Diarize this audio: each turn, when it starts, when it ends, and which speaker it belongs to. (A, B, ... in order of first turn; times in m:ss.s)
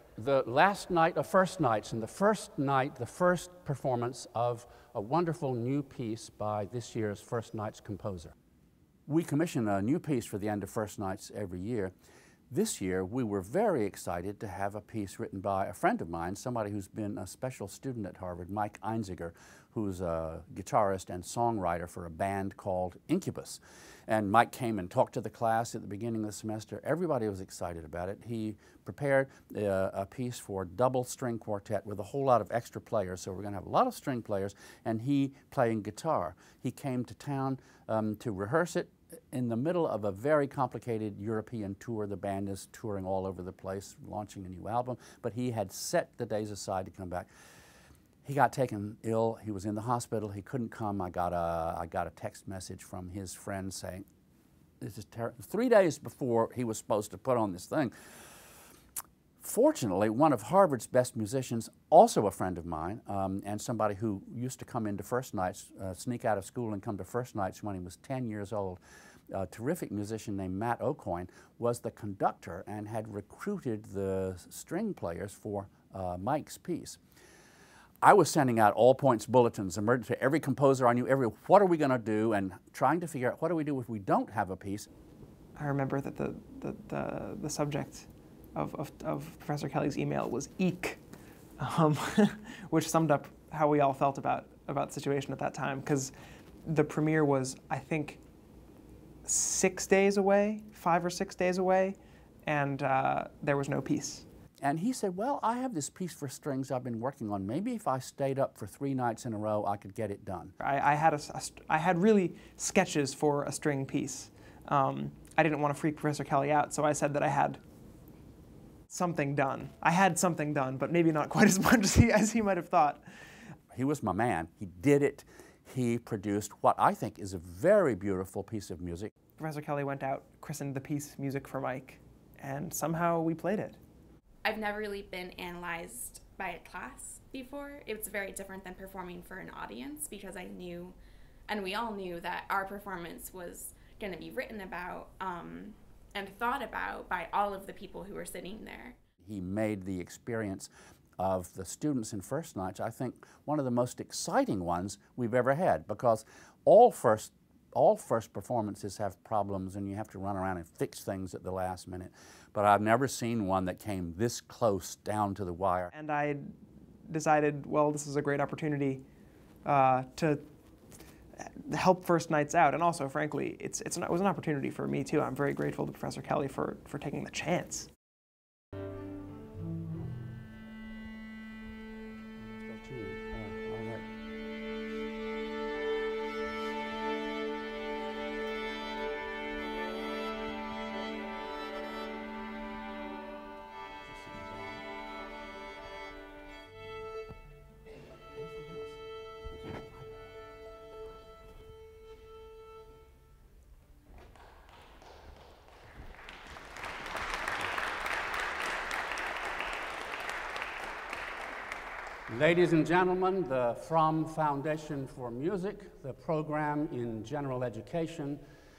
0:00.2-0:08.3 A
0:09.1-0:11.9 A
0:12.5-0:47.3 A
0:48.2-0:54.0 A
0:54.8-0:57.9 A
0:59.4-1:08.8 A
1:09.3-1:17.0 A
1:18.0-1:24.9 A
1:25.6-1:31.0 B
1:31.6-1:36.1 B
1:36.6-1:38.2 B
1:39.2-1:44.2 B
1:44.6-1:50.5 A
1:50.6-1:57.6 B
1:58.9-2:03.0 B
2:03.7-2:09.1 A
2:09.4-2:13.8 B
2:14.4-2:21.0 C
2:21.5-2:29.0 C
2:29.2-2:45.9 A
2:45.9-2:46.5 B
2:47.1-2:49.0 B
2:49.6-2:50.4 B
2:51.4-2:57.9 B
3:02.4-3:04.0 A
3:14.1-3:14.8 A
3:18.5-3:18.8 A
3:32.3-3:38.4 A